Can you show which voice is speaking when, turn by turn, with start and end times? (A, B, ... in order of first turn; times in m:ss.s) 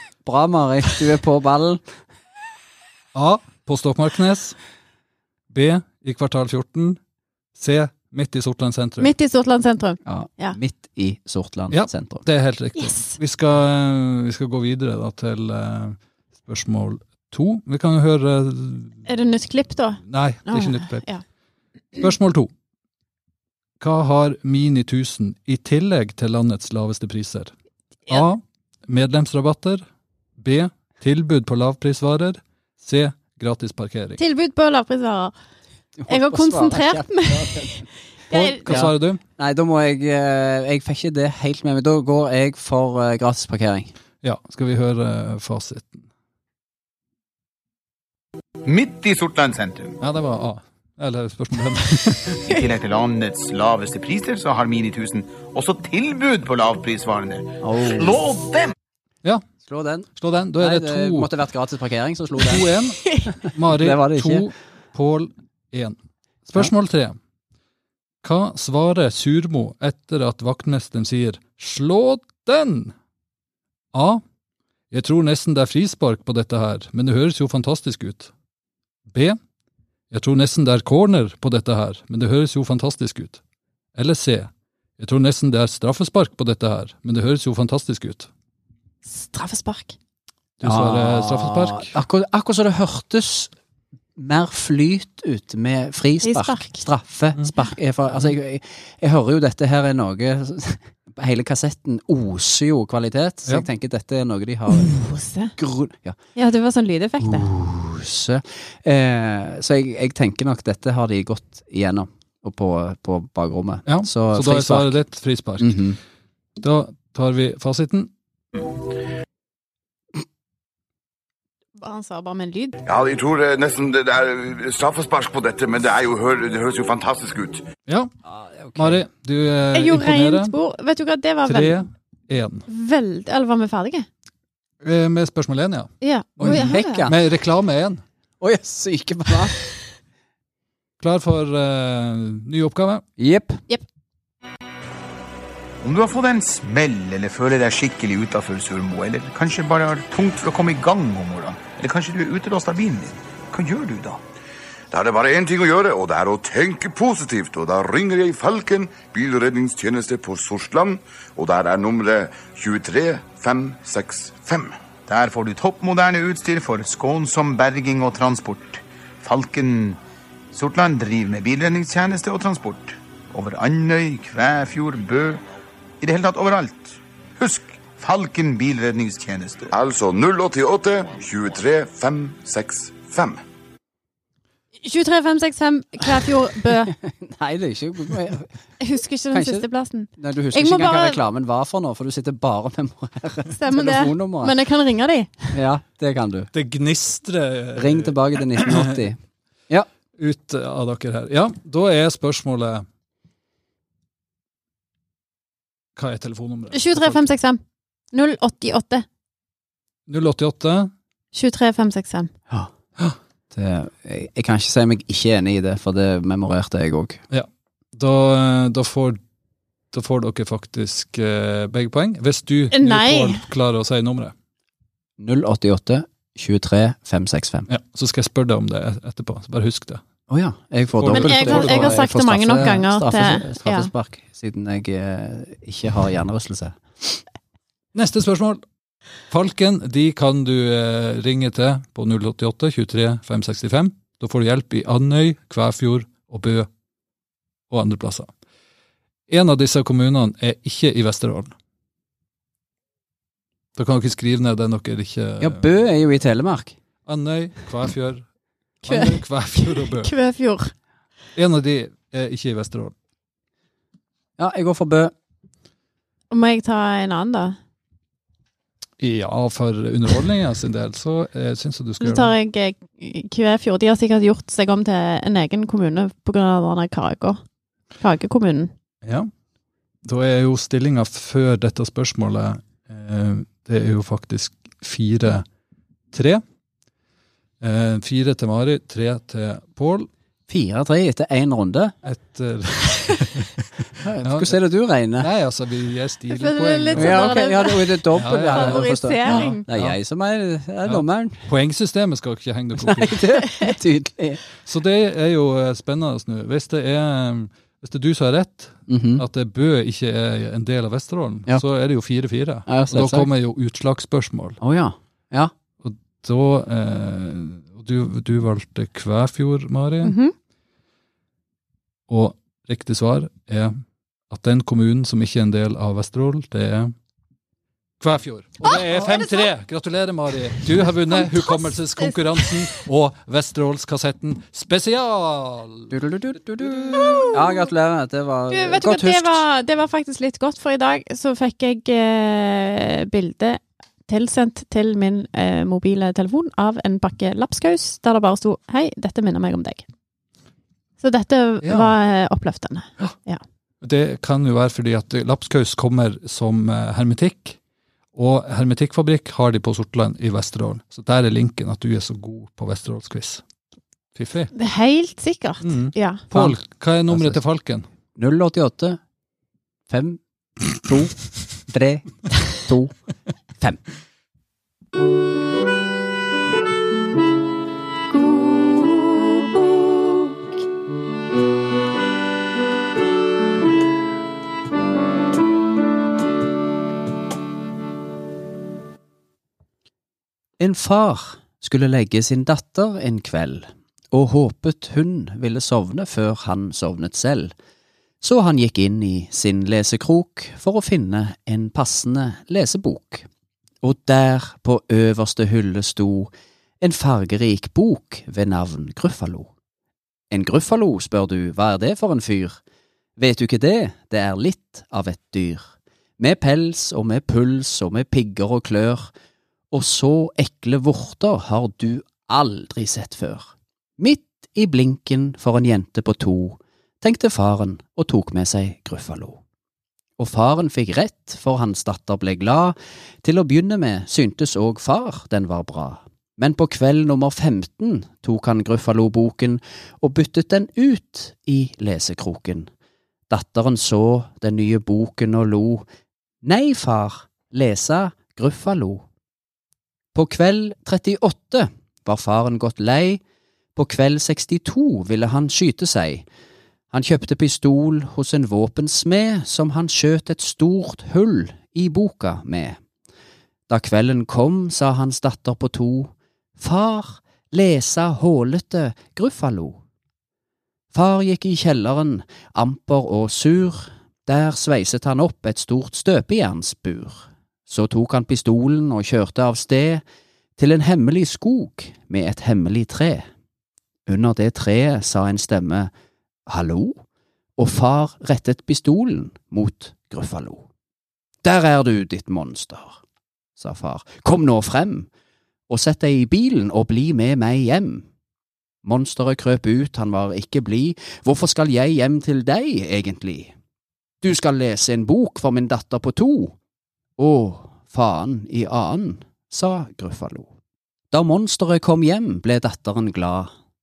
0:00.2-0:01.8 A
0:03.1-0:04.6 B
0:05.5-0:07.0 B
0:07.5-0:09.1 B
0:09.0-0:10.6 C
0:10.0-0:12.2 A
0:11.7-0:19.0 B
0:12.8-0:13.1 C
0:19.0-0:21.2 C
0:20.1-0:21.1 B
0:22.0-0:22.5 B
0:23.8-0:27.5 B
0:28.1-0:29.8 B
0:30.4-0:34.2 B
0:34.2-0:35.3 C
0:36.0-0:37.8 A
0:36.1-0:38.8 C
0:38.3-0:39.2 B
0:38.7-0:43.9 A
0:44.2-0:46.0 B
0:48.6-0:50.0 D
0:50.0-0:52.4 B
0:52.4-0:58.7 D
0:57.6-0:58.2 A
0:59.6-1:02.6 A
1:00.2-1:01.3 B
1:02.4-1:07.2 B
1:03.4-1:04.4 A
1:08.2-1:12.9 B
1:13.9-1:14.2 B
1:14.9-1:18.3 B
1:19.1-1:19.4 B
1:20.1-1:23.4 B
1:23.9-1:28.3 B
1:29.0-1:29.9 C
1:30.6-1:31.9 B
1:30.6-1:33.5 A
1:34.2-1:45.0 A
1:36.2-1:36.8 C
1:44.8-1:45.5 C
1:45.6-1:46.2 A
1:46.4-1:47.5 C
1:47.2-1:55.0 A
1:53.8-1:56.0 B
1:55.6-1:56.0 A
1:56.6-1:58.1 B
2:01.8-2:02.8 C
2:02.8-2:07.6 E
2:08.2-2:09.0 A
2:08.8-2:10.5 B
2:09.7-2:11.8 C
2:11.4-2:12.6 B
2:12.7-2:14.0 C
2:14.8-2:18.0 B
2:16.0-2:17.1 C
2:16.4-2:17.2 A
2:18.4-2:19.6 A
2:21.0-2:23.0 B
2:23.2-2:23.6 A
2:25.8-2:34.2 D
2:34.9-2:44.7 E
2:45.1-2:50.0 D
2:50.5-2:55.4 D
2:56.0-2:59.7 D
2:59.7-3:03.4 E
3:04.8-3:07.0 C
3:06.9-3:08.5 A
3:08.8-3:11.2 C
3:09.3-3:14.5 A
3:13.5-3:15.6 C
3:15.5-3:16.5 A
3:16.5-3:18.9 B
3:17.8-3:19.9 A
3:20.2-3:22.8 B
3:26.0-3:27.3 B
3:26.7-3:27.6 C
3:28.1-3:29.0 C
3:30.1-3:30.9 B
3:31.3-3:32.3 C
3:33.5-3:37.2 A
3:37.3-3:39.2 B
3:39.9-3:44.3 B
3:42.7-3:43.4 C
3:45.2-3:47.7 A
3:47.7-3:50.0 B
3:50.3-3:57.2 A
3:51.0-3:52.0 B
3:51.1-3:53.9 C
3:57.9-3:58.6 B
3:59.3-4:06.7 B
4:07.7-4:08.3 B
4:09.3-4:11.5 B
4:13.8-4:15.7 B
4:15.4-4:16.8 A
4:17.0-4:18.2 B
4:18.8-4:20.1 B
4:18.9-4:20.7 C
4:21.4-4:22.9 B
4:24.4-4:25.1 A
4:26.3-4:27.6 C
4:29.0-4:32.3 B
4:32.0-4:37.4 C
4:38.0-4:38.7 C
4:39.0-4:39.3 B
4:40.0-4:45.4 B
4:46.1-4:46.4 B
4:47.6-4:50.1 B
4:50.5-4:51.9 A
4:52.0-4:53.6 B
4:54.0-4:55.3 A
4:54.2-4:54.5 B
4:55.2-4:57.4 B
4:56.3-4:59.7 C
4:56.9-5:01.5 A
4:58.1-5:00.0 B
5:00.8-5:03.2 B
5:02.8-5:04.4 A
5:03.5-5:03.7 C
5:04.6-5:14.6 B
5:08.9-5:09.2 A
5:12.7-5:13.3 A
5:14.6-5:15.5 A
5:15.8-5:20.2 B
5:20.0-5:20.3 C
5:22.1-5:23.8 B
5:24.3-5:26.9 B
5:28.0-5:35.9 B
5:28.6-5:29.5 C
5:31.1-5:32.5 C
5:35.9-5:39.4 A
5:36.6-5:37.2 B
5:37.0-5:37.4 C
5:38.5-5:49.8 C
5:51.0-5:53.4 C
5:51.6-5:51.9 B
5:53.8-5:57.6 B
5:58.1-6:03.4 B
6:04.1-6:04.5 B
6:04.5-6:06.2 C
6:05.6-6:07.8 B
6:06.3-6:06.6 A
6:07.1-6:07.4 A
6:08.2-6:09.0 A
6:09.9-6:12.9 A
6:30.6-6:37.5 A
6:38.2-6:43.3 A
6:43.8-6:49.5 A
6:50.3-6:52.6 A
6:53.2-6:59.1 A
6:59.7-7:03.5 A
7:04.0-7:09.4 A
7:10.2-7:22.7 A
7:23.3-7:25.8 A
7:26.4-7:29.0 A
7:30.1-7:33.2 A
7:33.8-7:36.2 A
7:36.9-7:42.8 A
7:43.7-7:49.8 A
7:50.9-8:00.0 A
8:00.6-8:03.2 A
8:04.1-8:05.9 A
8:06.4-8:07.0 A
8:07.6-8:10.6 A
8:11.4-8:13.0 A
8:13.6-8:15.1 A
8:15.7-8:18.0 A
8:18.8-8:23.5 A
8:24.2-8:26.5 A
8:27.2-8:30.5 A
8:31.1-8:33.5 A